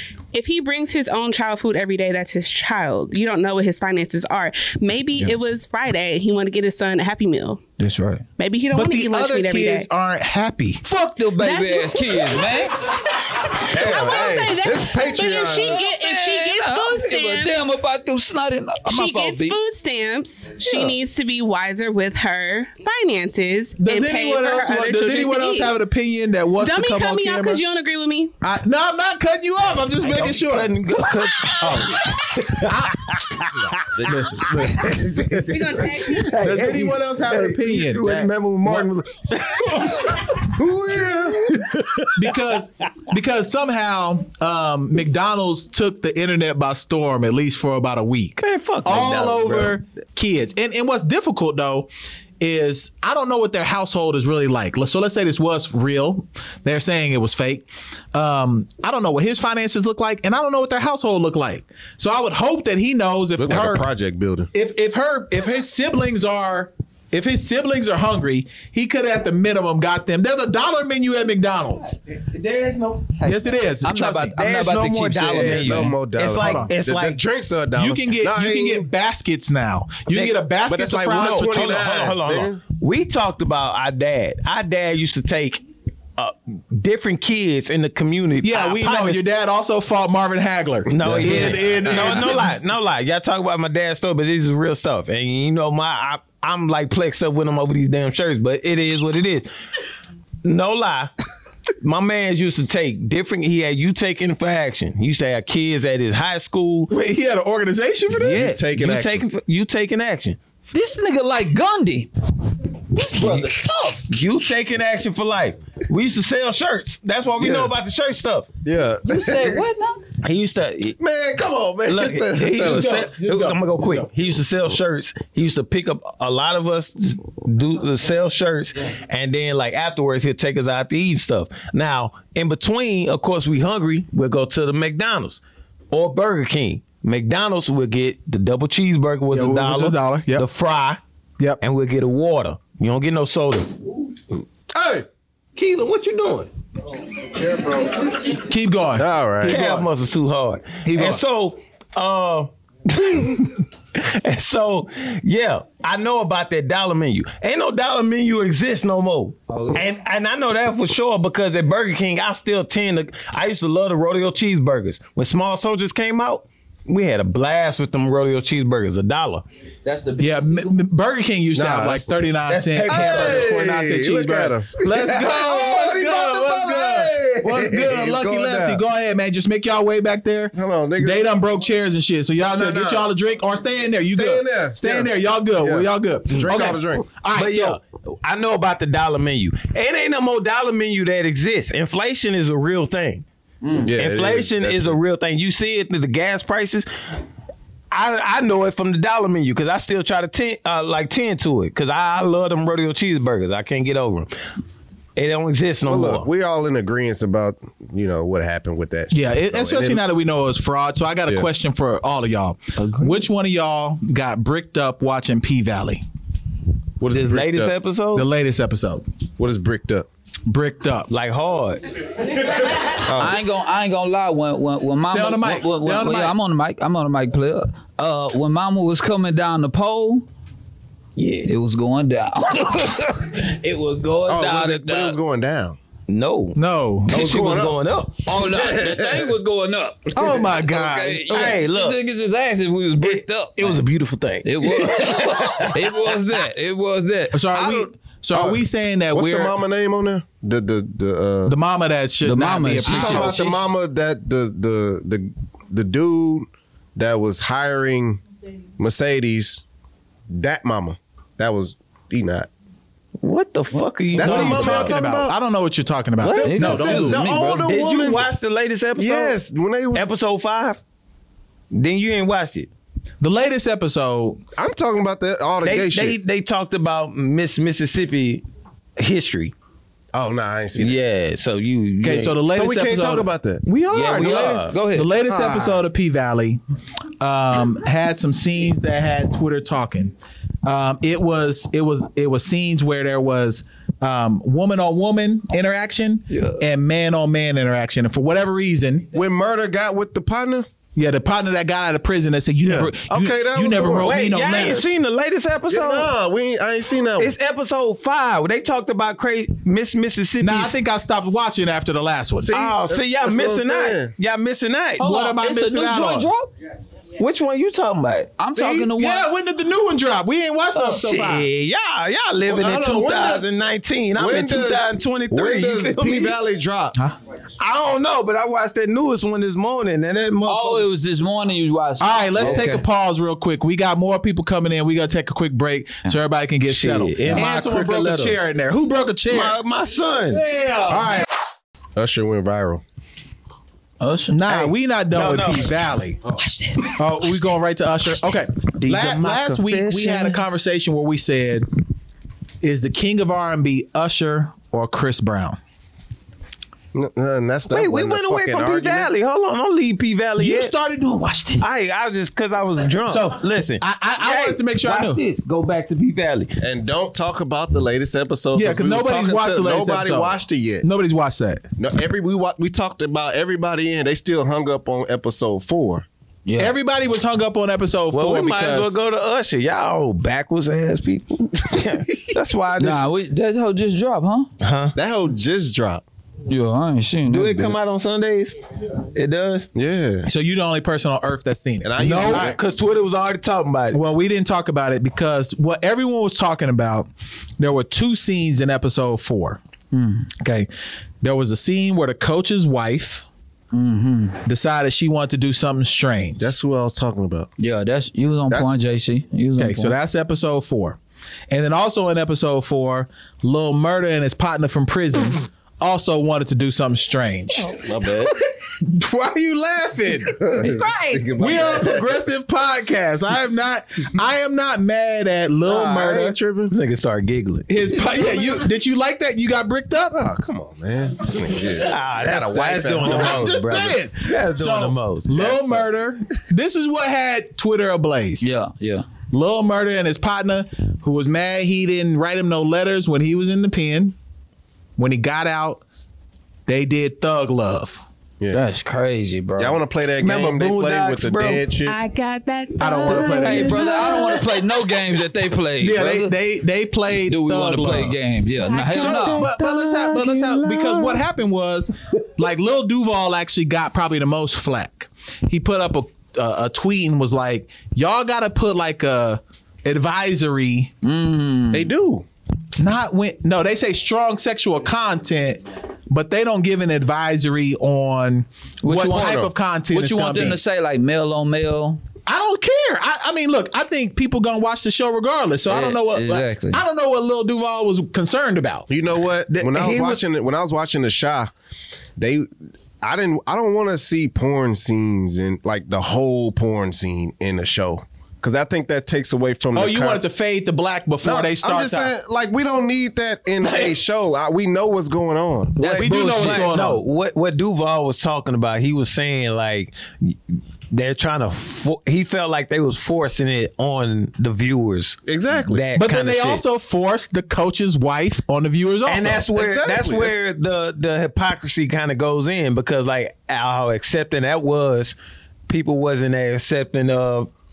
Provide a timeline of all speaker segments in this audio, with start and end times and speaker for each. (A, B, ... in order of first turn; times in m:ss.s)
0:00.3-0:07.6 A
0:07.8-0:08.2 B
0:08.4-0:09.9 A
0:08.7-0:10.8 C
0:10.8-0:13.7 B
0:11.4-0:12.5 A
0:13.7-0:17.7 A
0:13.7-0:15.8 D
0:15.7-0:19.6 B
0:18.8-0:25.7 A
0:23.8-0:27.6 C
0:26.6-0:28.3 A
0:28.4-0:30.7 C
0:30.0-0:33.7 E
0:31.6-0:33.2 C
0:33.7-0:35.8 D
0:34.0-0:35.8 C
0:34.8-0:35.2 E
0:35.5-0:36.3 A
0:36.1-0:40.2 E
0:36.4-0:38.9 C
0:40.4-0:41.8 D
0:41.8-0:42.1 E
0:42.2-0:51.9 C
0:48.4-0:49.8 E
0:52.4-1:03.8 C
1:03.4-1:04.5 D
1:04.5-1:12.0 C
1:12.4-1:13.0 E
1:13.2-1:14.3 C
1:13.2-1:16.0 B
1:14.3-1:17.2 E
1:15.3-1:18.9 D
1:16.3-1:16.7 C
1:17.8-1:21.8 C
1:20.1-1:20.3 E
1:20.7-1:22.6 D
1:21.1-1:25.6 E
1:26.2-1:29.2 E
1:28.4-1:32.5 C
1:30.9-1:39.5 E
1:31.0-1:32.3 D
1:40.4-1:41.1 E
1:41.8-1:46.9 E
1:46.9-1:48.6 C
1:48.2-1:50.4 E
1:48.2-1:49.2 D
1:50.7-1:52.1 B
1:52.9-1:54.0 B
1:53.2-1:53.5 E
1:54.1-1:58.5 E
1:57.4-1:57.7 D
1:58.6-1:59.6 D
1:59.0-2:00.0 B
2:00.2-2:01.0 E
2:01.0-2:03.0 D
2:01.8-2:21.0 E
2:02.6-2:04.1 C
2:19.3-2:20.4 C
2:21.6-2:23.8 E
2:24.7-2:25.1 D
2:25.6-2:26.5 E
2:27.4-2:28.0 D
2:28.4-2:29.9 C
2:28.9-2:29.6 D
2:29.4-2:49.4 E
2:30.8-2:31.2 C
2:39.5-2:39.8 B
2:49.8-2:50.8 B
2:50.2-3:07.8 C
2:51.5-2:52.1 D
2:52.5-2:53.5 E
2:52.9-2:58.8 D
3:00.5-3:01.3 D
3:02.4-3:03.1 D
3:04.1-3:07.0 D
3:07.3-3:13.2 E
3:13.6-3:13.9 B
3:13.8-3:15.0 D
3:14.0-3:16.9 E
3:17.9-3:24.3 E
3:25.2-3:26.3 E
3:25.8-3:30.0 D
3:29.1-3:36.0 C
3:32.8-3:33.2 E
3:37.0-3:37.7 D
3:37.1-3:38.3 E
3:38.1-3:39.0 C
3:39.4-3:40.1 D
3:40.5-3:41.1 C
3:41.1-3:41.8 E
3:43.0-3:43.4 D
3:43.1-3:50.2 B
3:45.1-3:46.3 C
3:51.2-3:51.5 E
3:51.4-3:55.2 B
3:54.2-3:55.8 D
3:56.1-3:56.6 E
3:56.6-3:57.2 C
3:57.1-3:58.2 E
3:57.1-3:57.8 D
3:58.2-4:03.8 B
3:58.3-3:59.3 D
4:00.1-4:01.6 C
4:00.2-4:00.4 D
4:01.3-4:02.0 E
4:03.0-4:05.8 E
4:04.4-4:07.9 B
4:07.3-4:09.5 C
4:08.3-4:08.6 D
4:09.1-4:11.5 D
4:11.5-4:13.3 C
4:12.2-4:13.6 B
4:12.8-4:18.2 D
4:18.8-4:19.6 D
4:20.3-4:22.5 D
4:23.2-4:25.0 E
4:24.1-4:25.3 D
4:24.2-4:27.3 C
4:26.2-4:29.4 E
4:26.4-4:27.8 B
4:27.0-4:28.2 D
4:29.0-4:30.1 D
4:29.9-4:30.8 E
4:31.7-4:32.7 E
4:33.2-4:34.4 C
4:34.6-4:36.2 D
4:35.6-4:38.4 E
4:39.0-4:39.5 E
4:40.1-4:41.0 D
4:40.8-4:42.4 E
4:42.0-4:46.6 C
4:42.4-4:43.6 D
4:43.9-4:44.8 E
4:44.2-4:45.5 B
4:45.3-4:45.7 D
4:47.2-4:50.1 C
4:50.6-4:59.1 C
4:59.1-5:00.7 D
5:01.0-5:04.9 C
5:02.6-5:04.2 D
5:03.9-5:06.1 E
5:05.7-5:07.3 D
5:07.2-5:10.8 E
5:10.4-5:12.5 C
5:12.4-5:14.1 D
5:12.5-5:15.1 E
5:15.0-5:16.5 B
5:15.0-5:16.3 C
5:17.2-5:18.3 E
5:18.4-5:19.3 B
5:18.5-5:18.9 D
5:19.0-5:21.5 C
5:20.8-5:26.4 E
5:22.4-5:23.5 D
5:24.1-5:27.0 D
5:27.6-5:30.9 E
5:30.4-5:32.8 B
5:32.0-5:39.6 C
5:36.7-5:38.4 E
5:39.3-5:40.4 E
5:40.3-5:41.2 C
5:40.9-5:41.3 D
5:42.0-5:42.8 D
5:44.0-5:44.4 B
5:44.3-5:46.2 C
5:44.5-5:45.9 E
5:46.9-5:51.7 C
5:48.8-5:50.5 E
5:52.6-5:55.6 C
5:56.9-5:59.1 D
5:57.7-6:00.7 E
6:00.4-6:01.6 C
6:01.6-6:06.5 E
6:03.0-6:05.2 C
6:06.6-6:10.8 D
6:08.5-6:11.6 C
6:11.8-6:16.0 D
6:16.4-6:16.7 B
6:16.6-6:18.9 C
6:18.1-6:23.0 E
6:22.8-6:24.5 B
6:24.6-6:24.9 E
6:24.9-6:26.0 D
6:26.5-6:27.8 B
6:27.3-6:28.5 E
6:29.1-6:29.7 E
6:29.7-6:30.3 D
6:30.2-6:32.6 C
6:31.8-6:32.6 D
6:32.0-6:34.0 E
6:33.9-6:37.1 C
6:37.6-6:39.6 C
6:39.9-6:40.3 B
6:40.4-6:40.7 C
6:41.2-6:43.2 C
6:43.7-6:44.4 B
6:44.4-6:46.4 C
6:46.4-6:47.5 D
6:47.6-6:49.9 B
6:49.6-6:51.0 C
6:51.5-6:57.7 C
6:57.7-6:58.3 D
6:58.8-7:00.5 C
7:00.3-7:02.2 D
7:00.6-7:01.3 F
7:01.4-7:06.4 C
7:05.6-7:06.7 D
7:06.7-7:07.7 E
7:07.7-7:10.2 C
7:08.1-7:08.5 D
7:10.1-7:12.0 D
7:11.8-7:15.8 E
7:12.2-7:13.2 B
7:12.6-7:13.6 D
7:13.0-7:18.4 C
7:18.4-7:19.0 B
7:19.3-7:24.2 C
7:25.0-7:25.8 C
7:26.7-7:28.0 C
7:28.5-7:29.8 B
7:29.6-7:32.0 D
7:30.2-7:31.7 E
7:31.8-7:34.5 F
7:32.8-7:34.1 C
7:33.3-7:36.3 B
7:35.8-7:38.2 C
7:37.3-7:39.5 B
7:38.6-7:39.4 F
7:38.9-7:50.9 C
7:39.4-7:39.9 D
7:51.0-7:51.9 B
7:51.7-7:52.2 D
7:52.8-8:00.6 C
7:58.8-8:02.0 B
7:59.0-7:59.5 D
8:02.3-8:08.9 C
8:05.7-8:06.8 B
8:08.9-8:11.5 D
8:09.5-8:10.2 E
8:12.2-8:12.5 D
8:13.0-8:20.2 D
8:19.7-8:22.1 C
8:21.2-8:26.0 D
8:23.6-8:23.9 E
8:25.8-8:26.7 B
8:25.8-8:30.4 E
8:26.0-8:27.0 C
8:30.9-8:35.2 E
8:35.2-8:35.8 D
8:35.7-8:36.6 E
8:36.0-8:39.4 C
8:39.0-8:45.2 E
8:39.5-8:40.4 D
8:45.7-8:47.5 E